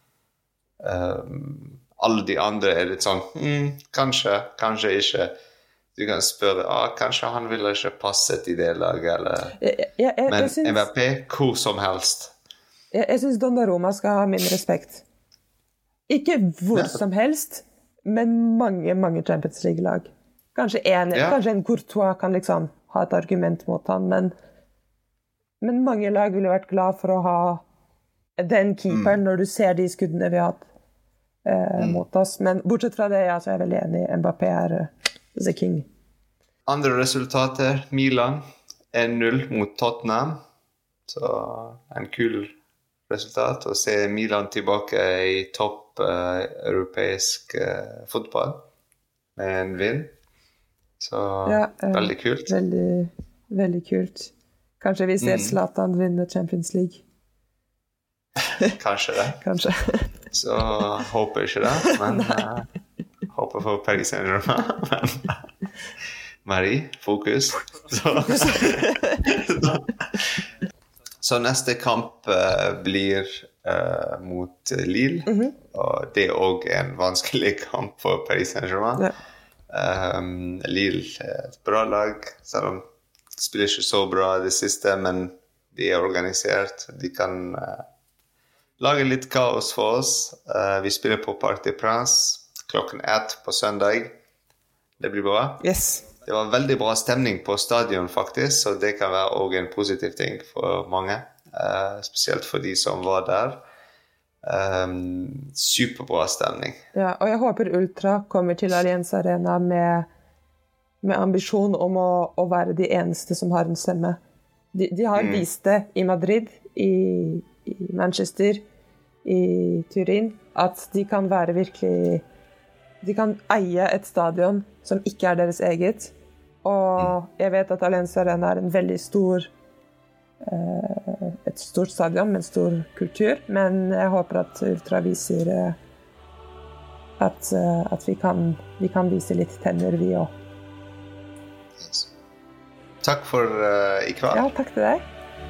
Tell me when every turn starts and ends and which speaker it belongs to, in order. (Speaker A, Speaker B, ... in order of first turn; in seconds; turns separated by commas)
Speaker A: 0.8-5.3, Speaker A: 6.0-9.6, Speaker B: 9.6-10.9, Speaker A: 10.3-12.3, Speaker B: 12.9-15.0, Speaker B: 16.1-24.3, Speaker A: 21.1-21.4, Speaker B: 25.6-27.6, Speaker B: 28.4-30.6, Speaker A: 28.9-29.2, Speaker B: 31.4-35.9, Speaker A: 31.8-32.0, Speaker A: 36.7-40.4, Speaker A: 41.1-42.5, Speaker A: 43.1-48.6, Speaker A: 49.4-50.1, Speaker A: 51.0-52.5, Speaker B: 51.4-57.0, Speaker A: 55.2-55.6, Speaker A: 58.7-59.4, Speaker B: 59.4-60.1, Speaker A: 60.3-62.7, Speaker B: 61.7-62.5, Speaker A: 63.3-65.5, Speaker A: 66.4-70.4, Speaker B: 68.2-69.3, Speaker A: 71.2-79.1, Speaker B: 75.3-75.5, Speaker A: 79.7-82.8, Speaker A: 83.3-87.8, Speaker A: 88.8-94.1, Speaker A: 95.0-95.6, Speaker B: 95.6-96.0, Speaker A: 96.2-103.6, Speaker A: 104.4-106.8, Speaker B: 106.9-110.1, Speaker B: 111.0-114.2, Speaker B: 114.7-118.6, Speaker A: 115.1-115.4, Speaker B: 119.2-122.2, Speaker B: 123.0-129.5, Speaker B: 130.4-135.8, Speaker B: 137.2-140.3, Speaker A: 141.8-142.1, Speaker A: 143.0-144.5, Speaker B: 144.3-145.0